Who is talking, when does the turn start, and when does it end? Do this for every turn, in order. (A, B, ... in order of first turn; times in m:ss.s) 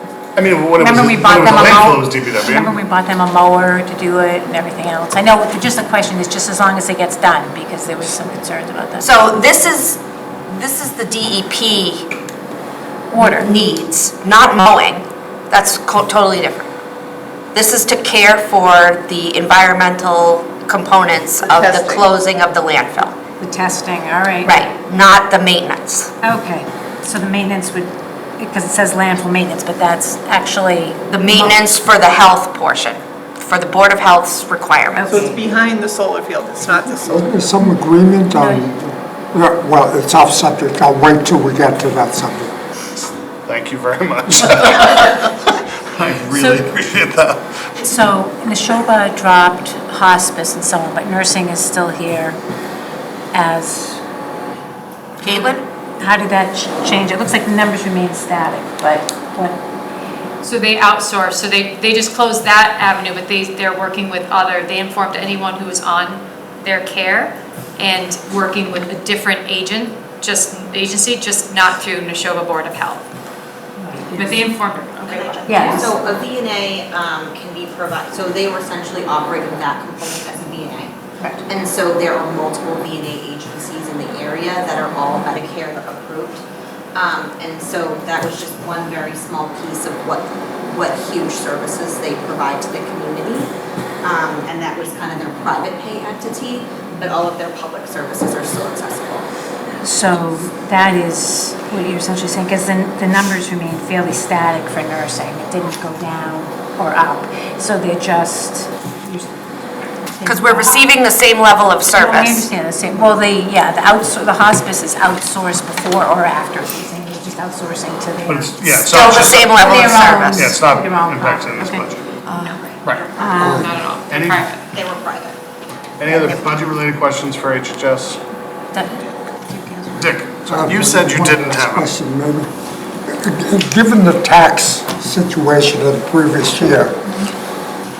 0:00.4-0:02.8 A
0:00.8-0:02.0 B
0:02.4-0:09.1 C
0:09.0-0:12.1 B
0:13.1-0:13.5 C
0:13.2-0:16.7 B
0:17.5-0:23.1 B
0:21.5-0:22.0 D
0:23.4-0:24.6 C
0:24.4-0:26.1 B
0:26.2-0:31.0 C
0:31.1-0:35.3 B
0:35.0-0:37.3 D
0:35.0-0:35.4 C
0:36.7-0:42.5 E
0:38.4-0:38.6 C
0:43.4-0:47.4 A
0:44.4-0:45.1 C
0:46.3-0:46.6 C
0:47.8-0:52.4 C
0:53.3-0:54.0 C
0:55.2-0:55.6 B
0:55.2-0:59.6 C
1:00.4-1:13.0 F
1:13.8-1:14.4 C
1:14.1-1:15.9 F
1:15.0-1:26.4 G
1:15.4-1:15.9 C
1:26.9-1:33.5 G
1:34.0-1:39.3 G
1:39.8-1:49.3 C
1:50.0-1:50.8 C
1:50.2-1:52.4 B
1:51.9-2:02.6 C
1:58.3-1:59.6 A
1:58.9-2:00.5 B
2:00.3-2:02.1 A
2:02.4-2:02.8 G
2:02.8-2:03.1 A
2:03.2-2:03.7 C
2:03.2-2:04.7 F
2:03.4-2:03.7 E
2:04.1-2:04.5 A
2:04.7-2:05.4 G
2:06.0-2:08.2 A
2:08.7-2:10.1 C
2:10.0-2:11.9 A
2:10.5-2:12.5 E
2:13.1-2:17.0 E